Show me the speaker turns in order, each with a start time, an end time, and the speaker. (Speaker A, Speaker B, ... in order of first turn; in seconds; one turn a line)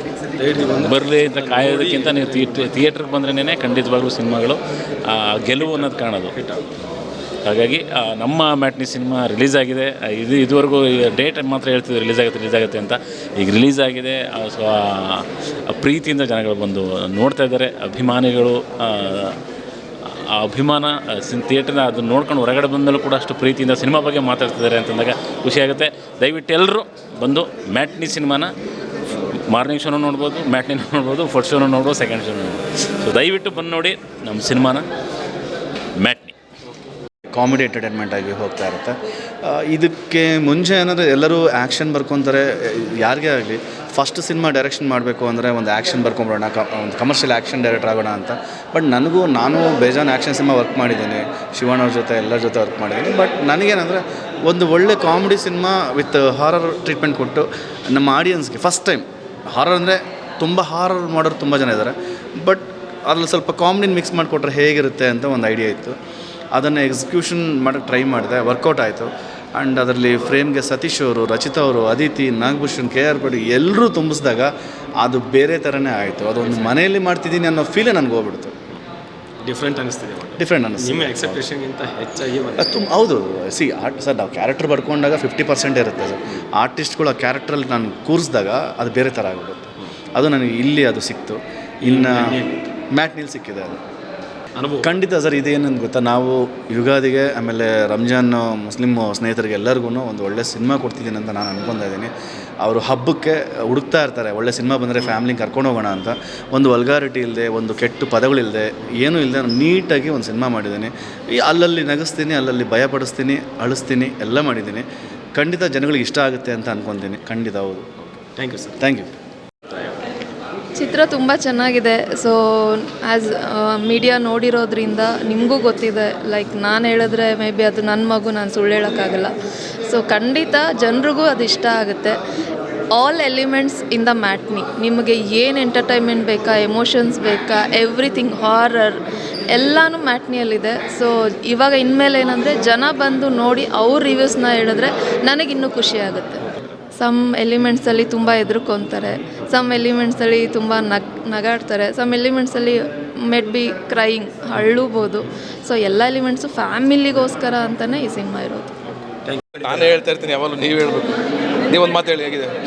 Speaker A: 0.3-2.5
Speaker B: 0.7-6.3
Speaker A: 5.6-6.6
Speaker B: 7.4-19.4
Speaker B: 20.1-28.5
Speaker B: 29.5-34.8
Speaker B: 36.0-36.3
Speaker C: 37.3-65.9
Speaker C: 66.5-78.5
Speaker A: 79.4-82.7
Speaker C: 80.4-81.4
Speaker C: 82.6-92.4
Speaker A: 91.8-92.6
Speaker C: 92.9-93.8
Speaker A: 94.6-94.9
Speaker C: 94.8-114.8
Speaker C: 115.3-117.8
Speaker A: 118.2-118.8
Speaker C: 118.8-119.1
Speaker D: 120.8-129.3
Speaker D: 129.9-132.2
Speaker D: 132.9-158.7
Speaker A: 159.3-159.9
Speaker E: 159.6-162.5